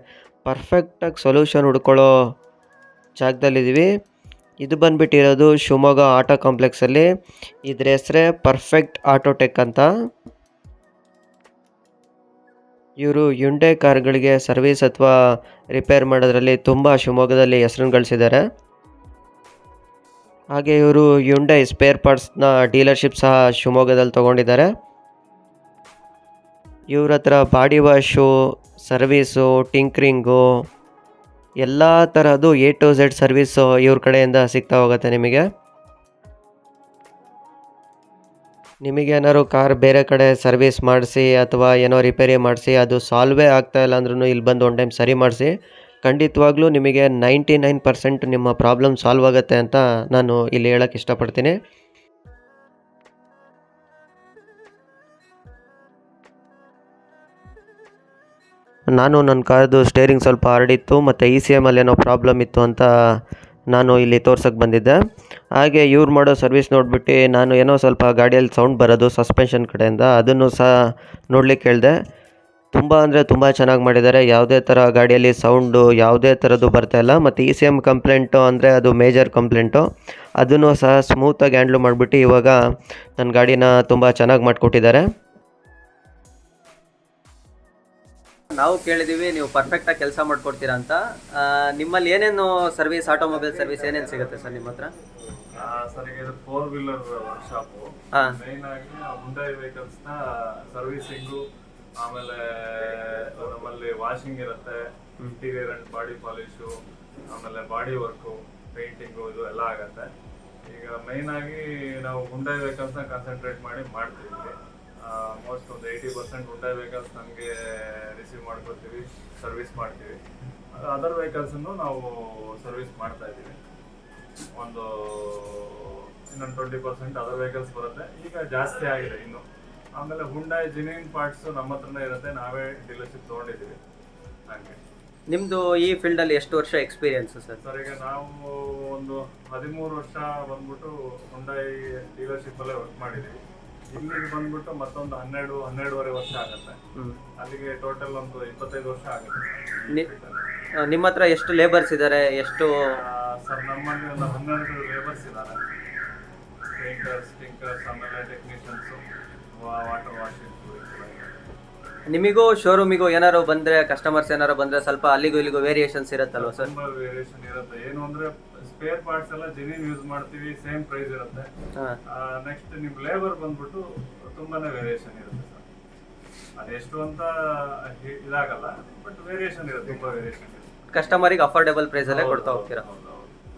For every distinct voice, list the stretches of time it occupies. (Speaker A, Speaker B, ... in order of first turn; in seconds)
Speaker A: 0.5-2.1, 3.2-3.9, 4.6-7.1, 7.7-9.9, 13.0-15.1, 15.8-18.4, 20.5-24.7, 26.9-28.3, 28.9-30.4, 31.6-35.4, 38.9-45.5, 46.0-51.5, 59.0-62.9, 63.7-65.0, 65.6-70.7, 71.3-72.0, 72.7-79.8, 80.4-82.6, 83.2-85.0
Speaker B: 88.5-94.9, 135.3-137.6, 150.9-152.8, 162.1-166.7, 180.9-182.8
Speaker C: 95.5-101.4, 102.0-106.7, 107.3-110.1, 110.7-120.2, 120.8-123.6, 124.5-129.4, 130.0-133.8, 134.5-134.8, 137.6-143.4, 143.9-146.8, 147.4-150.4, 153.0-155.6, 156.8-159.0, 159.6-161.4, 166.4-171.5, 172.1-175.6, 176.6-181.1, 182.1-183.3